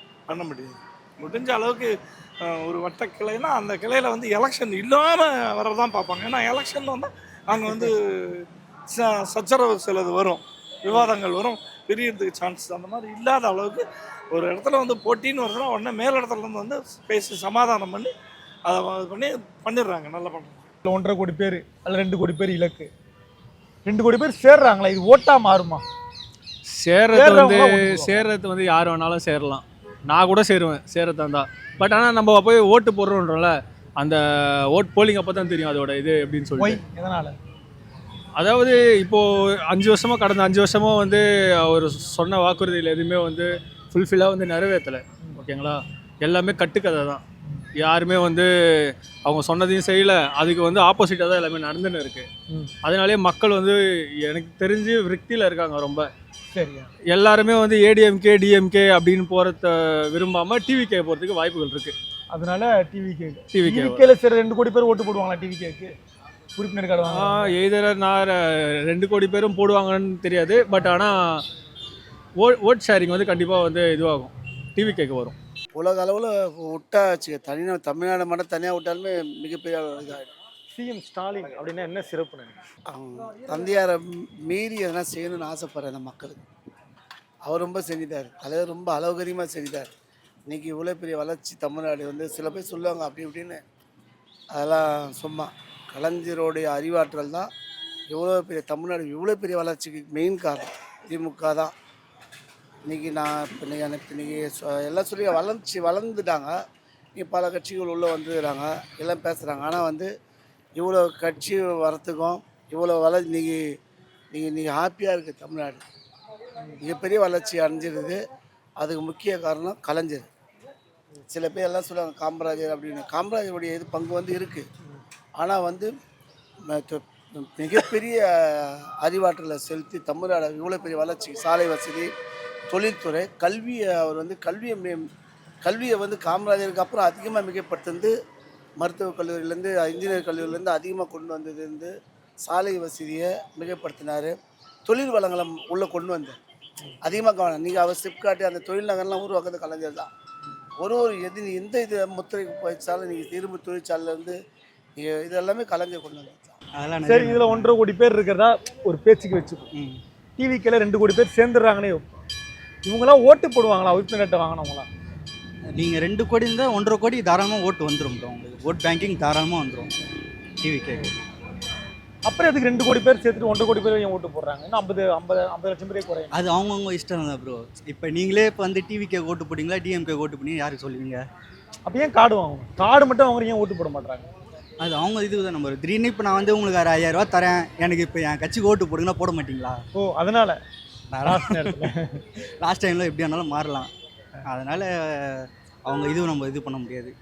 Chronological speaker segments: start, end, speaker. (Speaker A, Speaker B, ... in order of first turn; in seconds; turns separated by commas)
Speaker A: 0.3-1.9, Speaker A: 2.4-18.1, Speaker A: 18.7-20.6, Speaker B: 20.8-22.9, Speaker B: 23.9-25.8, Speaker C: 26.7-36.8, Speaker B: 27.1-28.3, Speaker B: 36.6-37.4, Speaker C: 38.4-47.2, Speaker C: 47.8-52.3, Speaker C: 52.8-56.1, Speaker B: 56.5-56.9, Speaker C: 57.1-62.0, Speaker B: 62.3-65.9, Speaker C: 63.5-64.1, Speaker B: 66.6-67.5, Speaker C: 67.1-71.5, Speaker C: 72.4-75.4, Speaker D: 75.8-80.3, Speaker B: 80.7-82.6, Speaker D: 82.9-86.4, Speaker D: 87.5-89.9, Speaker D: 90.5-93.6, Speaker D: 94.5-97.5, Speaker D: 98.1-101.7, Speaker D: 102.9-106.5, Speaker D: 107.2-110.1, Speaker D: 110.8-113.6, Speaker D: 114.3-115.8, Speaker D: 116.8-118.2, Speaker D: 118.8-120.3, Speaker D: 121.3-124.7, Speaker D: 125.4-125.9, Speaker D: 126.7-132.1, Speaker D: 132.7-135.1, Speaker D: 135.6-138.1, Speaker D: 138.8-141.9, Speaker D: 142.4-144.3, Speaker D: 144.9-146.4, Speaker D: 147.0-150.1, Speaker D: 150.8-154.3, Speaker D: 155.0-156.6, Speaker E: 156.8-157.7, Speaker B: 157.1-159.7, Speaker B: 160.4-162.1, Speaker B: 162.8-164.9, Speaker E: 165.8-169.9, Speaker E: 170.6-171.1, Speaker B: 172.3-176.3, Speaker E: 176.3-181.2, Speaker B: 181.9-184.3, Speaker E: 184.8-189.8, Speaker B: 189.9-190.6, Speaker E: 191.2-191.8, Speaker B: 191.3-191.9, Speaker E: 192.6-193.9, Speaker E: 194.5-197.1